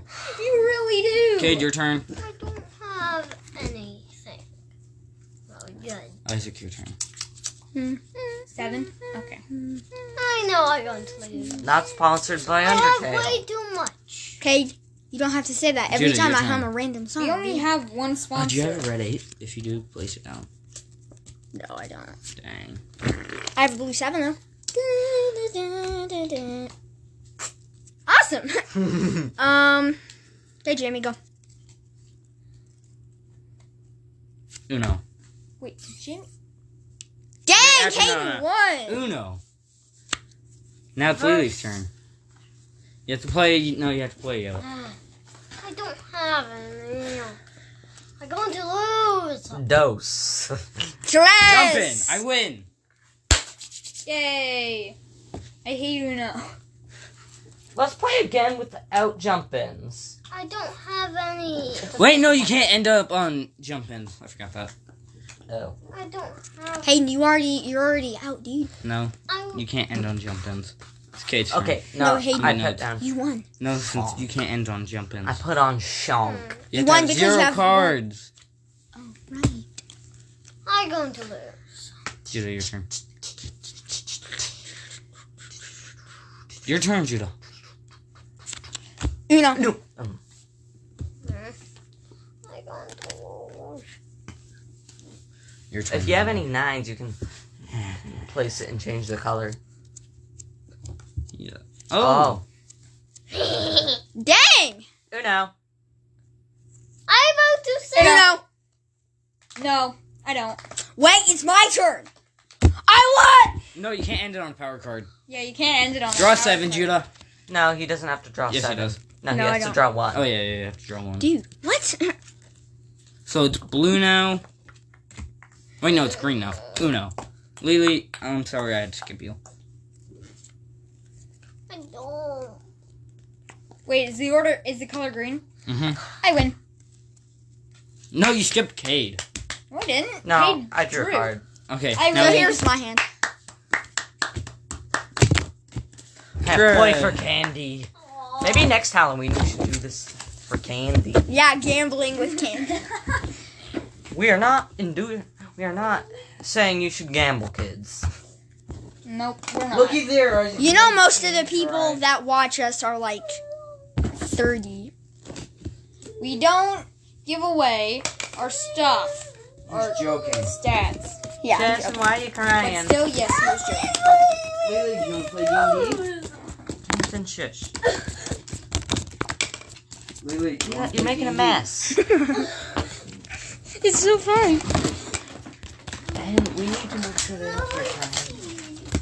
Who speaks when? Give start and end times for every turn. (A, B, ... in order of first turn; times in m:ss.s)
0:00.3-0:01.7 A
0:01.4-0:02.0 B
0:02.2-0:04.4 C
0:05.5-0:06.2 C
0:06.2-0:06.9 B
0:07.7-0:08.0 D
0:08.5-0:09.4 A
0:09.6-0:09.8 D
0:10.1-0:11.7 C
0:11.6-0:13.4 E
0:12.6-0:14.4 C
0:14.4-0:17.7 D
0:15.9-0:16.7 B
0:17.2-0:18.8 A
0:18.3-0:20.5 B
0:21.5-0:22.2 D
0:22.4-0:22.8 B
0:23.5-0:26.7 D
0:28.1-0:30.0 D
0:30.6-0:31.2 D
0:34.7-0:35.0 B
0:35.6-0:36.3 A
0:37.4-0:39.0 D
0:37.5-0:39.4 B
0:41.0-0:41.9 B
0:43.0-0:44.6 B
0:44.6-0:45.0 C
0:45.6-0:47.4 C
0:48.2-0:49.6 C
0:49.5-0:50.8 E
0:51.0-0:52.2 D
0:51.4-0:52.7 B
0:54.0-0:55.0 A
0:55.6-0:56.5 A
0:57.7-1:00.2 E
1:00.3-1:02.4 C
1:01.9-1:04.7 B
1:05.5-1:05.8 E
1:05.9-1:06.9 C
1:06.8-1:08.7 D
1:08.8-1:12.9 B
1:09.3-1:09.6 C
1:11.5-1:13.0 E
1:12.0-1:13.4 D
1:13.6-1:15.4 B
1:13.8-1:14.3 E
1:15.2-1:16.5 E
1:16.2-1:16.6 C
1:16.7-1:18.3 B
1:16.7-1:18.0 D
1:19.0-1:19.6 D
1:20.6-1:21.9 C
1:22.3-1:22.9 B
1:26.6-1:27.3 B
1:29.3-1:29.7 D
1:29.6-1:30.2 E
1:31.2-1:31.6 C
1:32.4-1:33.8 C
1:35.7-1:36.4 B
1:35.9-1:37.2 E
1:37.7-1:38.1 B
1:38.1-1:39.6 E
1:41.3-1:42.4 B
1:42.0-1:42.4 E
1:43.3-1:44.0 C
1:44.2-1:44.8 D
1:45.1-1:45.5 E
1:47.1-1:48.3 C
1:47.9-1:48.4 D
1:48.0-1:48.3 A
1:49.6-1:50.6 A
1:51.0-1:52.1 D
1:52.8-1:53.6 D
1:53.7-1:55.1 B
1:55.3-1:57.0 A
1:56.1-1:57.1 B
1:57.5-2:00.3 E
1:58.5-1:59.0 B
1:59.3-1:59.8 D
2:00.1-2:01.3 B
2:01.2-2:02.2 D
2:03.2-2:04.4 B
2:05.8-2:09.4 B
2:11.7-2:12.6 C
2:13.8-2:15.4 A
2:15.7-2:16.0 B
2:16.2-2:16.6 A
2:18.1-2:19.2 B
2:19.7-2:21.3 A
2:20.2-2:21.4 E
2:21.7-2:22.6 B
2:21.9-2:22.7 A
2:22.0-2:23.0 D
2:26.4-2:31.2 E
2:26.4-2:27.2 B
2:28.0-2:28.8 C
2:31.2-2:32.8 D
2:32.7-2:33.2 A
2:34.1-2:38.1 E
2:39.0-2:40.0 A
2:39.7-2:42.0 B
2:40.6-2:43.4 D
2:44.2-2:44.9 D
2:46.2-2:51.2 A
2:49.7-2:50.5 B
2:51.4-2:52.1 D
2:51.5-2:53.0 E
2:52.6-2:53.9 A
2:54.6-2:56.3 B
2:56.8-2:57.7 E
3:00.2-3:01.7 B
3:00.6-3:02.0 E
3:02.0-3:02.5 D
3:03.8-3:04.6 D
3:06.1-3:08.5 E